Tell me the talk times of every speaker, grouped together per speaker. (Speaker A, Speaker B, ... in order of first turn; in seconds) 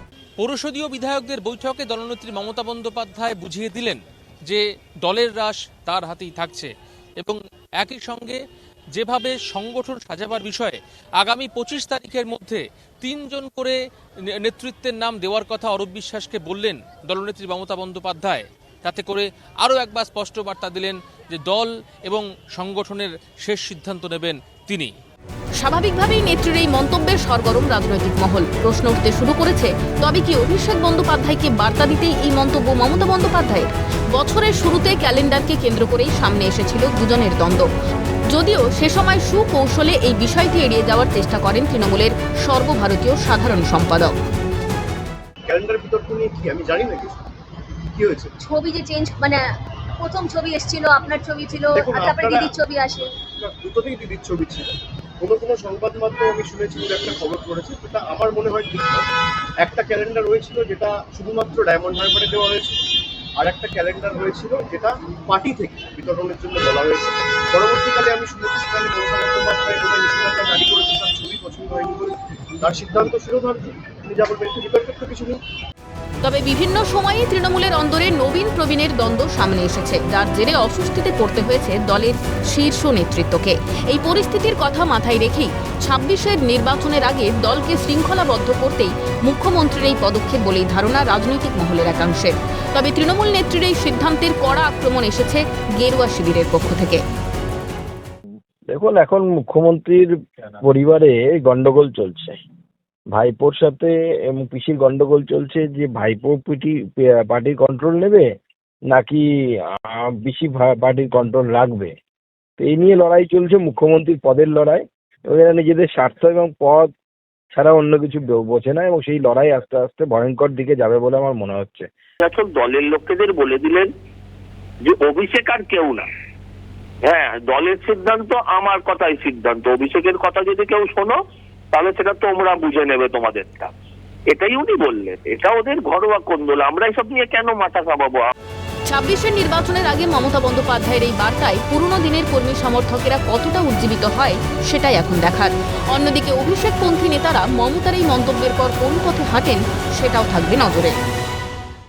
Speaker A: 0.4-8.4, 8.9-13.8, 14.4-24.9
Speaker B: 25.6-37.7, 38.3-44.1, 76.2-97.0, 138.9-150.9
Speaker C: 45.5-47.2, 47.9-48.3, 51.8-52.5, 53.4-59.0, 59.6-62.8, 63.4-75.4
Speaker D: 48.4-49.5, 50.0-53.1
Speaker E: 98.7-102.4, 103.1-108.3, 108.9-111.9, 112.6-116.9, 117.5-121.9
Speaker F: 122.2-123.9, 124.8-126.1, 127.1-131.2, 131.7-133.7, 134.3-138.3